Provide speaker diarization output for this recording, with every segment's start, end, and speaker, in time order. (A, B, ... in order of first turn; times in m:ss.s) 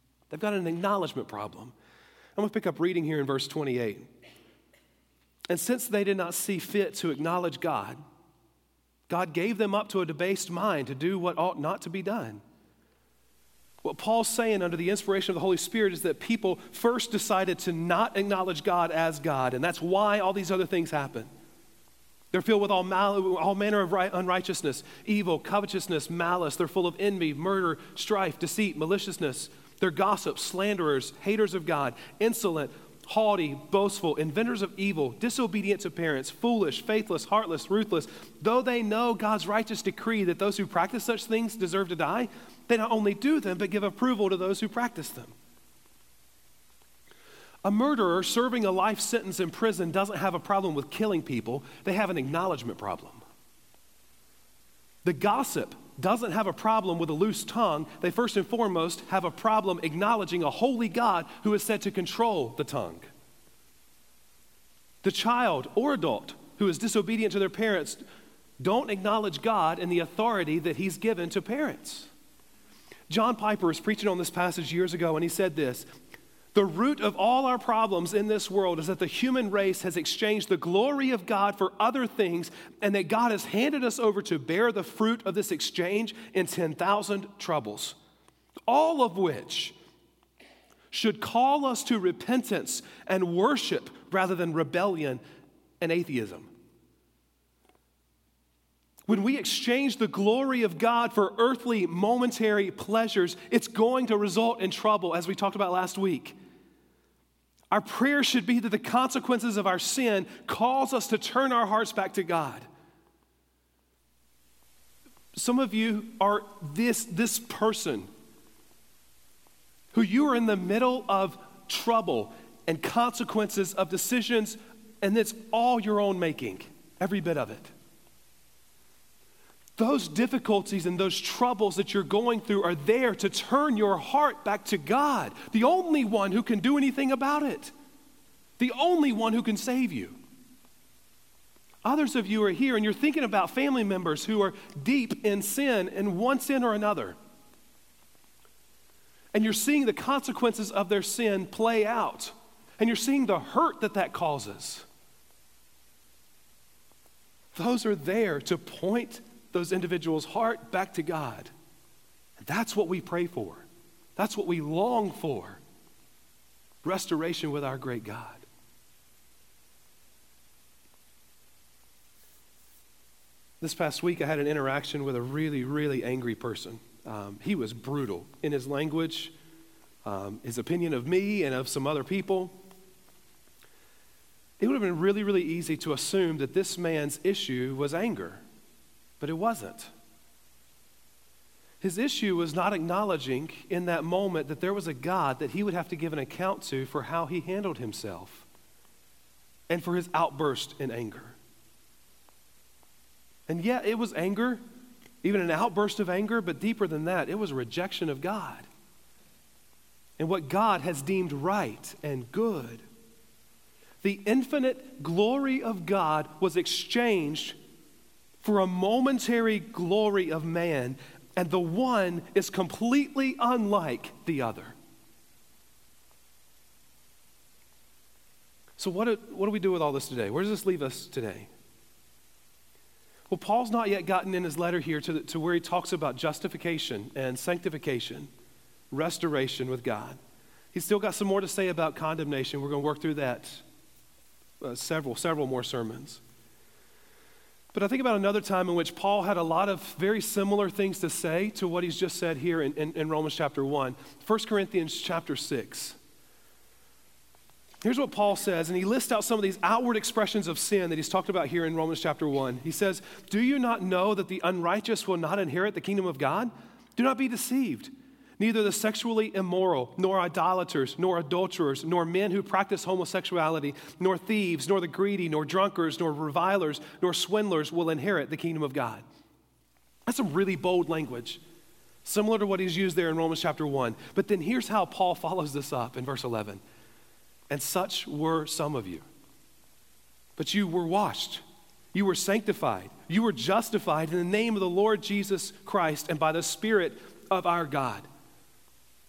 0:00.3-0:01.7 A
0:02.4-0:04.1 A
0:05.5-0:08.0 A
0:09.1-0:12.4 A
0:13.8-0:21.3 A
0:22.3-0:45.3 A
0:47.6-0:53.2 A
0:55.0-1:03.1 A
1:05.0-1:08.0 A
1:08.6-1:12.1 A
1:13.1-1:15.9 A
1:16.5-1:28.0 A
1:28.7-1:29.8 A
1:30.9-1:35.2 A
1:35.8-1:36.5 A
1:39.1-1:46.4 A
1:47.7-1:52.7 A
1:55.3-1:58.1 A
1:59.9-2:07.7 A
2:09.8-2:17.7 A
2:18.6-2:20.2 A
2:21.8-2:27.2 A
2:29.3-2:34.9 A
2:37.5-2:41.5 A
2:42.4-2:45.6 A
2:46.8-2:48.4 A
2:53.6-2:59.3 A
3:00.0-3:02.6 A
3:04.6-3:08.4 A
3:09.2-3:09.9 A
3:11.8-3:18.5 A
3:19.7-3:21.4 A
3:23.5-3:24.6 A
3:25.2-3:28.7 A
3:30.2-3:32.8 A
3:34.0-3:37.6 A
3:38.4-3:44.8 A
3:48.8-3:51.5 A
3:53.3-3:58.3 A
3:58.9-4:00.2 A
4:00.7-4:03.6 A
4:04.6-4:06.2 A
4:07.7-4:16.0 A
4:17.8-4:39.0 A
4:40.1-4:41.4 A
4:42.0-4:46.6 A
4:47.5-4:49.0 A
4:50.4-4:51.4 A
4:51.9-4:58.1 A